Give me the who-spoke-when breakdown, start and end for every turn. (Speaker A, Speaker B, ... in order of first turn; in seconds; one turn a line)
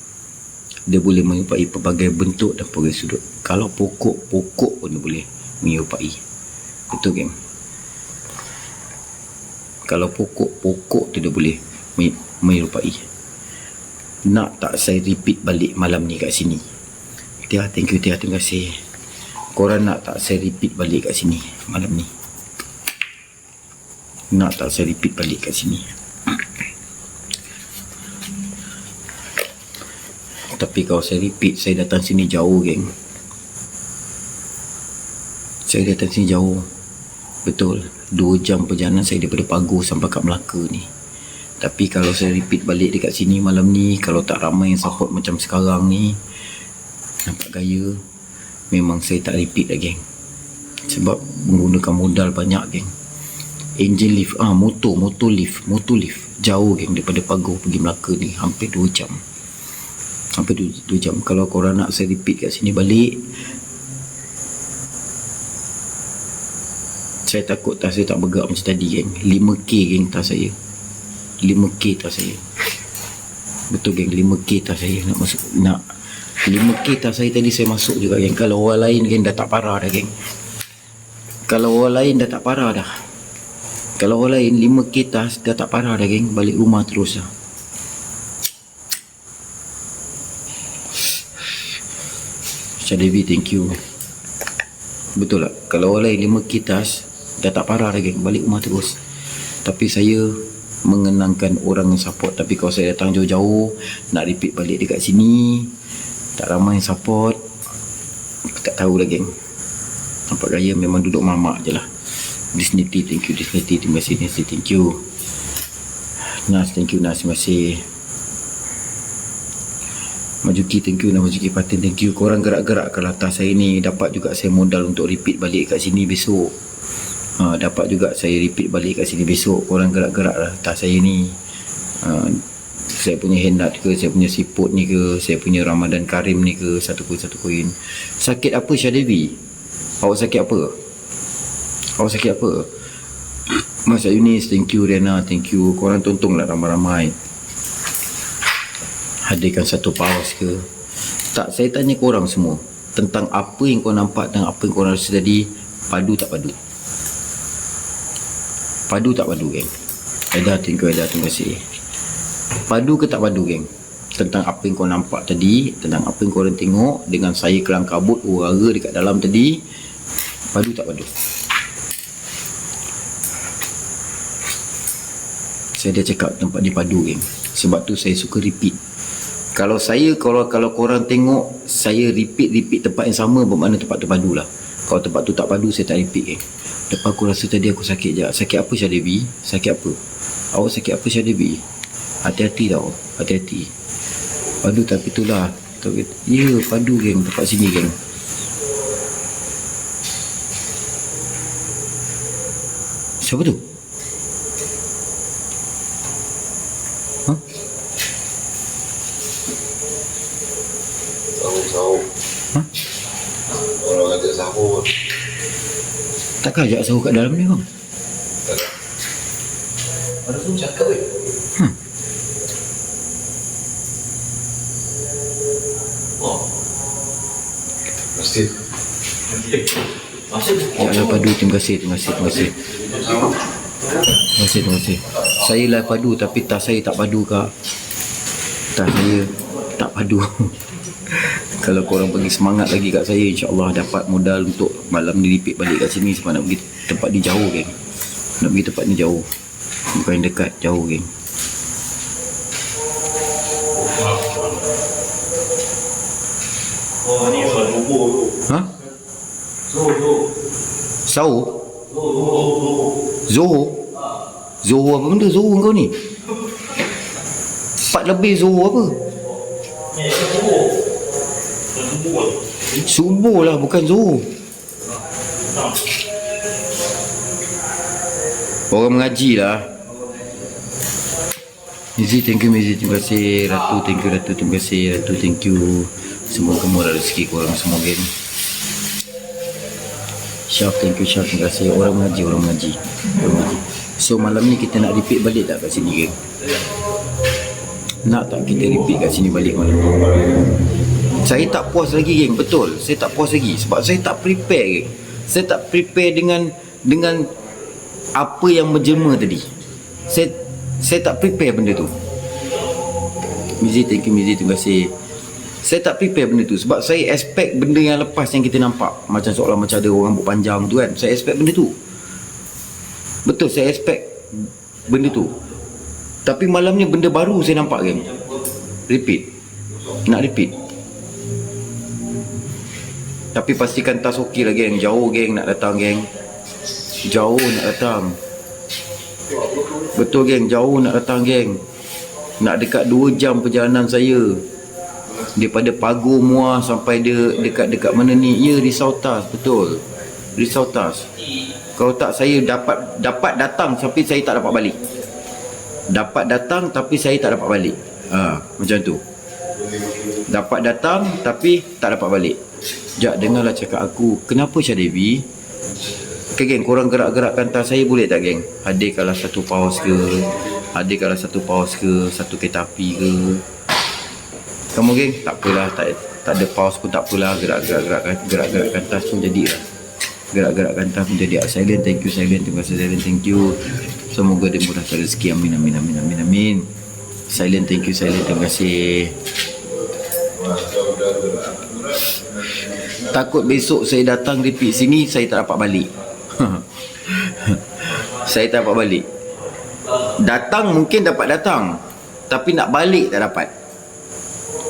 Speaker A: 0.9-6.2
Speaker A: 6.9-7.3
Speaker A: 9.9-13.1
Speaker A: 14.3-16.6
Speaker A: 17.5-18.8
Speaker A: 19.6-22.1
Speaker A: 24.3-25.9
Speaker A: 30.6-32.9
Speaker A: 35.7-36.7
Speaker A: 37.5-40.9
Speaker A: 41.6-46.2
Speaker A: 47.3-48.0
Speaker A: 48.7-50.0
Speaker A: 50.9-52.9
Speaker A: 53.8-59.2
Speaker A: 60.4-63.3
Speaker A: 67.3-70.5
Speaker A: 71.4-72.4
Speaker A: 73.7-75.8
Speaker A: 76.5-80.1
Speaker A: 81.5-82.9
Speaker A: 84.0-87.3
Speaker A: 92.8-93.8
Speaker A: 95.2-99.0
Speaker A: 99.7-105.7
Speaker A: 106.4-107.4
Speaker A: 108.5-109.3
Speaker A: 110.3-111.9
Speaker A: 112.5-115.0
Speaker A: 116.5-117.8
Speaker A: 120.4-126.5
Speaker A: 127.4-131.4
Speaker A: 132.0-139.4
Speaker A: 140.0-140.8
Speaker A: 142.0-142.7
Speaker A: 143.8-147.2
Speaker A: 149.2-150.7
Speaker A: 151.3-156.6
Speaker A: 158.9-159.7
Speaker A: 160.3-161.6
Speaker A: 162.7-169.6
Speaker A: 170.5-171.1
Speaker A: 175.8-178.8
Speaker A: 179.6-190.0
Speaker A: 190.5-191.6
Speaker A: 192.2-193.7
Speaker A: 194.6-197.9
Speaker A: 203.2-203.6
Speaker B: 211.4-212.1
Speaker B: 213.7-215.0
Speaker A: 216.4-217.7
Speaker B: 218.5-218.7
Speaker C: 220.2-221.1
Speaker B: 228.1-228.5
Speaker C: 230.3-230.7
Speaker A: 230.7-232.6
Speaker A: 234.3-237.5
Speaker A: 238.7-240.6
Speaker A: 241.1-247.8
Speaker A: 248.4-249.3
Speaker A: 249.9-251.1
Speaker C: 257.1-258.2
Speaker C: 259.7-260.2
Speaker A: 261.1-261.6
Speaker C: 261.9-262.9
Speaker A: 263.3-263.8
Speaker A: 264.6-266.0
Speaker A: 267.9-269.0
Speaker C: 269.9-270.6
Speaker A: 272.8-274.3
Speaker A: 278.7-279.7
Speaker A: 282.0-288.1
Speaker A: 290.5-296.2
Speaker A: 298.0-300.3
Speaker A: 301.2-307.3
Speaker A: 308.1-309.5
Speaker A: 310.1-311.9
Speaker A: 313.4-314.9
Speaker A: 315.6-321.7
Speaker A: 323.2-325.4
Speaker A: 326.2-328.1
Speaker A: 328.9-329.3
Speaker A: 330.1-330.6
Speaker A: 333.3-336.1
Speaker A: 337.0-338.2
Speaker A: 339.9-341.6
Speaker A: 342.4-344.4
Speaker A: 345.2-349.8
Speaker A: 350.4-351.1
Speaker A: 351.8-354.8
Speaker A: 355.9-359.0
Speaker A: 360.3-362.4
Speaker A: 363.0-365.3
Speaker A: 366.4-373.4
Speaker A: 374.7-379.6
Speaker A: 380.3-386.7
Speaker A: 387.3-389.2
Speaker B: 390.3-393.1
Speaker A: 393.1-399.1
Speaker A: 400.2-401.8
Speaker A: 402.3-403.5